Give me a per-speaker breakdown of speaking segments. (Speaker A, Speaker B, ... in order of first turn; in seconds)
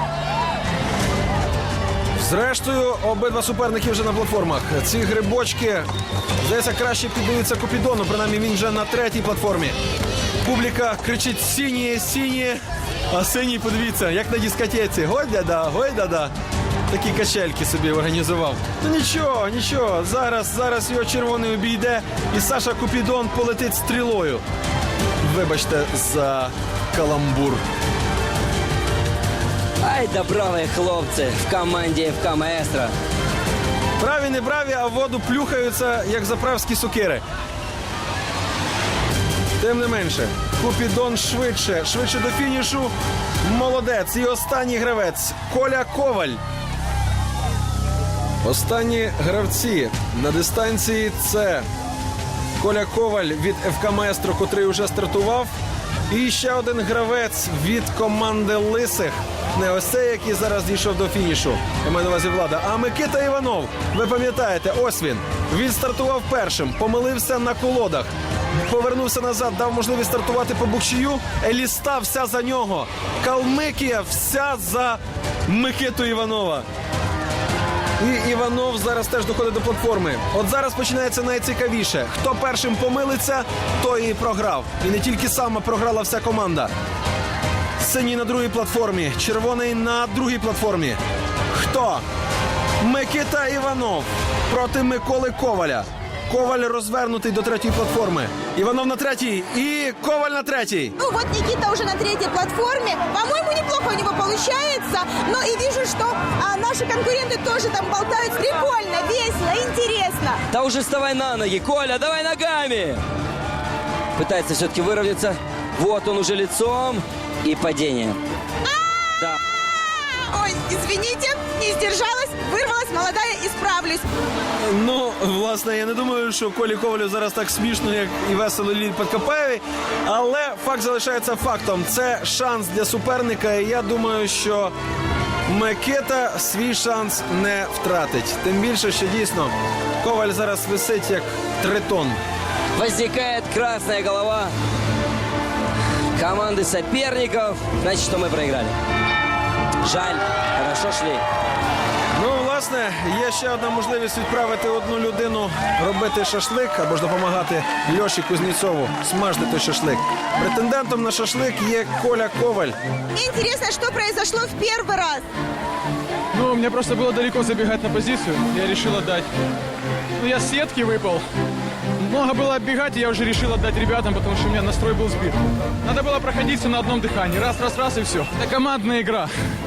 Speaker A: 2.2-5.9, 6.4-9.8, 10.4-16.3, 16.9-24.4, 25.2-27.6, 34.0-37.2, 39.6-46.4, 48.4-51.6, 52.6-55.5, 56.1-76.7, 78.0-86.7, 87.8-91.0, 91.5-92.0, 92.8-101.0, 124.6-134.7, 135.5-142.2, 152.2-162.8
Speaker B: 29.8-32.9, 110.5-113.0, 114.2-118.2, 142.8-144.5, 146.2-148.7, 149.8-151.2
Speaker C: 101.0-110.4, 118.7-119.2, 119.8-124.1, 163.2-165.3
Speaker D: 166.3-169.3, 170.2-171.2, 172.0-179.3